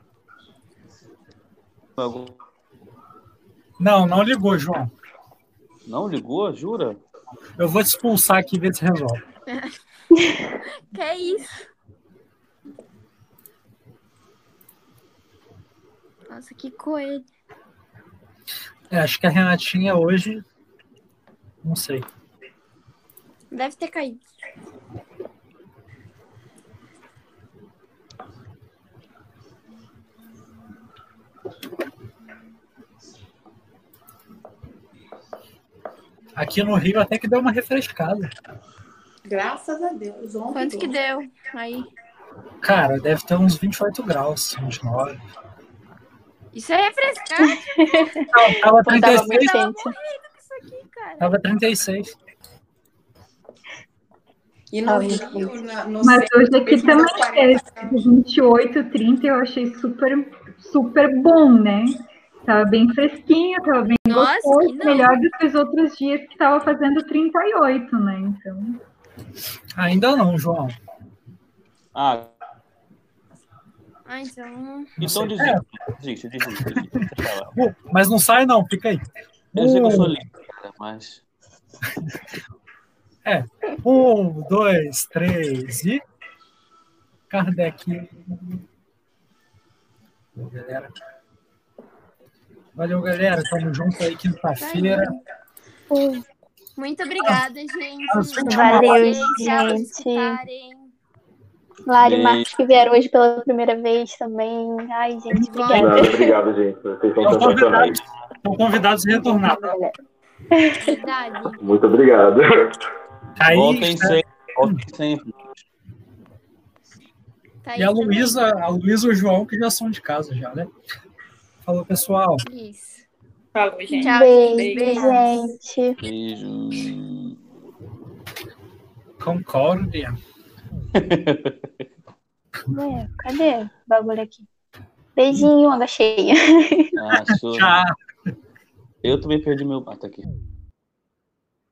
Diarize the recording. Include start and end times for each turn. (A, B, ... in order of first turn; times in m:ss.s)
0:02.0-0:02.4 A
0:03.8-0:04.9 B
0:05.9-0:07.0 A
0:07.6-0:09.2 B
0:10.2-0:10.5 C
0:10.9-0:11.7 D
0:16.3-0:17.3 D
0:18.9-0:20.4 B
0:21.6-0:22.1 B
0:23.5-0:24.2 D
0:36.4-0:38.3 B
0:39.2-0:41.0 E
0:40.5-0:41.9 D
0:42.6-0:45.2 B
0:46.5-0:48.2 D
0:47.5-0:48.2 C
0:48.3-0:49.6 B
0:48.8-0:49.9 C
0:49.0-0:51.3 D
0:51.2-0:52.2 B
0:54.7-0:57.9 E
0:54.9-0:55.5 C
0:56.0-1:08.8 F
1:04.1-1:05.2 D
1:09.8-1:10.8 B
1:12.0-1:12.3 A
1:14.1-1:15.0 D
1:15.0-1:15.6 B
1:15.0-1:17.5 A
1:17.6-1:19.0 B
1:19.5-1:21.2 A
1:19.6-1:20.2 B
1:23.2-1:26.0 B
1:27.3-1:28.6 B
1:30.4-1:30.9 B
1:32.8-1:35.1 B
1:34.6-1:35.2 D
1:35.9-1:36.2 C
1:36.8-1:40.9 D
1:38.1-1:39.5 B
1:38.4-1:40.4 C
1:41.9-1:46.4 C
1:42.0-1:42.5 A
1:45.3-1:46.0 B
1:45.6-1:48.0 G
1:47.2-1:49.8 B
1:49.2-1:49.9 C
1:50.6-1:51.0 C
1:50.8-1:51.6 D
1:51.6-1:52.8 G
1:53.4-1:54.8 B
1:53.4-1:55.3 A
1:57.6-1:58.4 D
1:57.8-2:00.7 B
2:01.6-2:02.4 B
2:02.4-2:03.0 D
2:03.6-2:05.1 E
2:04.0-2:05.5 D
2:04.0-2:06.0 C
2:06.0-2:07.4 A
2:09.2-2:10.2 B
2:11.0-2:11.7 A
2:12.7-2:14.5 C
2:15.2-2:16.9 C
2:17.0-2:17.8 A
2:17.3-2:17.9 B
2:19.0-2:20.3 A